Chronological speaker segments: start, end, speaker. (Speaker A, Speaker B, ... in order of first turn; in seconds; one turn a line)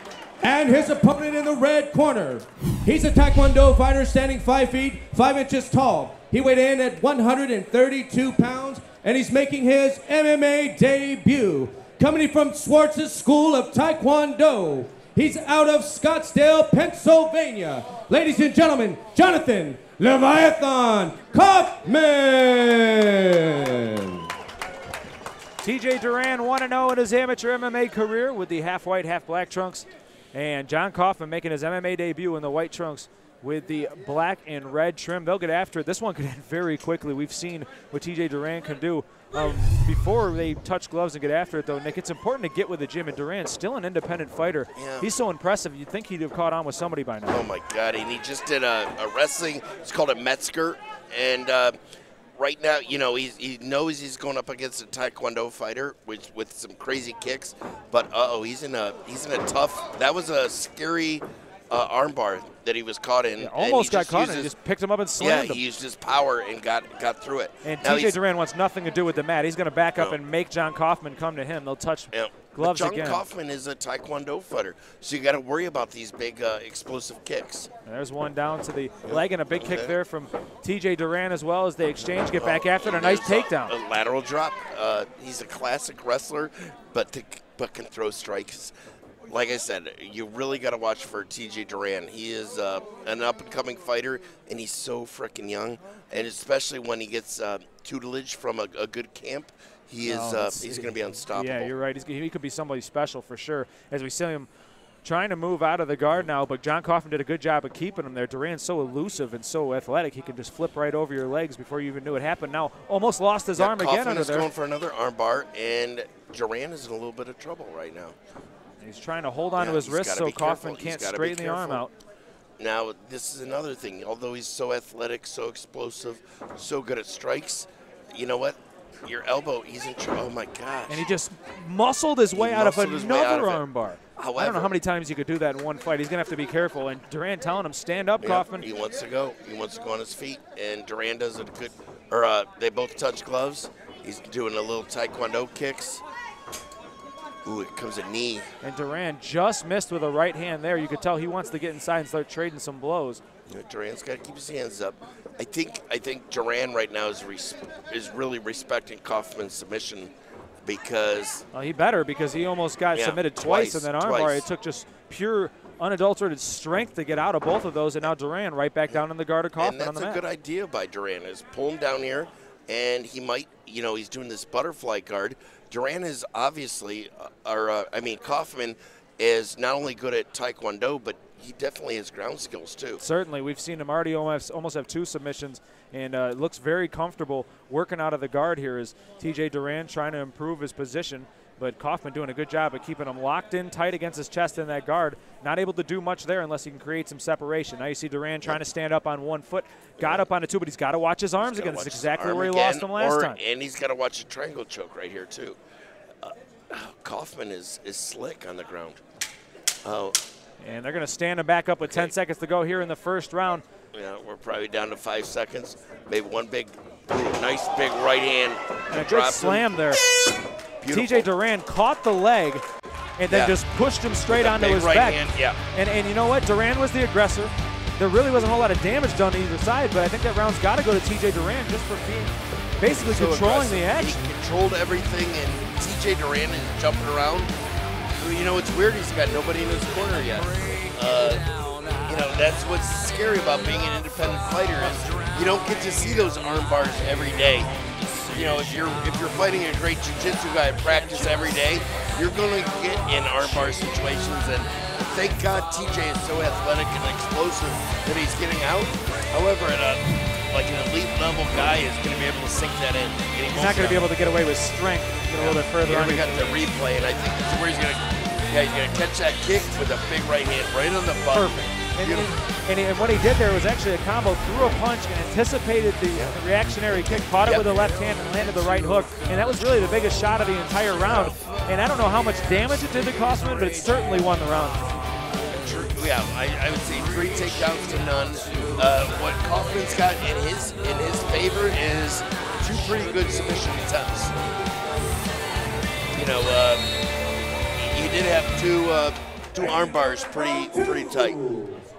Speaker A: 0.4-24.2
Speaker B: 25.6-47.4
Speaker C: 44.8-45.1
Speaker C: 47.3-51.8
Speaker C: 52.4-64.5
Speaker B: 63.4-65.6
Speaker C: 65.2-68.2
Speaker B: 67.6-73.2
Speaker C: 72.1-77.7
Speaker B: 77.9-83.7
Speaker C: 79.1-80.0
Speaker C: 82.3-88.7
Speaker C: 89.3-101.7
Speaker B: 100.0-104.5
Speaker B: 105.0-114.5
Speaker C: 113.6-118.2
Speaker B: 118.8-121.9
Speaker C: 119.6-121.8
Speaker C: 122.6-131.1
Speaker B: 130.9-138.7
Speaker C: 132.3-133.6
Speaker C: 134.2-134.8
Speaker C: 138.2-146.0
Speaker C: 147.4-148.5
Speaker B: 148.6-153.2
Speaker C: 153.5-160.1
Speaker C: 160.6-161.4
Speaker B: 161.5-170.2
Speaker C: 162.9-164.4
Speaker C: 169.6-183.0
Speaker B: 183.0-203.4
Speaker C: 200.0-200.3
Speaker C: 201.4-205.6
Speaker C: 206.2-209.0
Speaker C: 209.8-210.2
Speaker B: 210.6-213.6
Speaker C: 211.8-212.1
Speaker C: 213.9-219.7
Speaker B: 218.9-220.0
Speaker C: 220.8-221.3
Speaker B: 220.9-222.6
Speaker B: 223.2-234.2
Speaker C: 223.3-223.6
Speaker C: 224.3-225.6
Speaker C: 232.9-237.5
Speaker C: 238.2-241.5
Speaker C: 242.0-264.1
Speaker B: 263.5-266.6
Speaker C: 265.3-272.4
Speaker B: 271.3-284.8
Speaker C: 276.1-276.4
Speaker C: 277.2-277.9
Speaker C: 281.1-281.5
Speaker C: 283.6-283.9
Speaker C: 285.5-294.4
Speaker C: 296.1-296.9
Speaker C: 297.8-301.6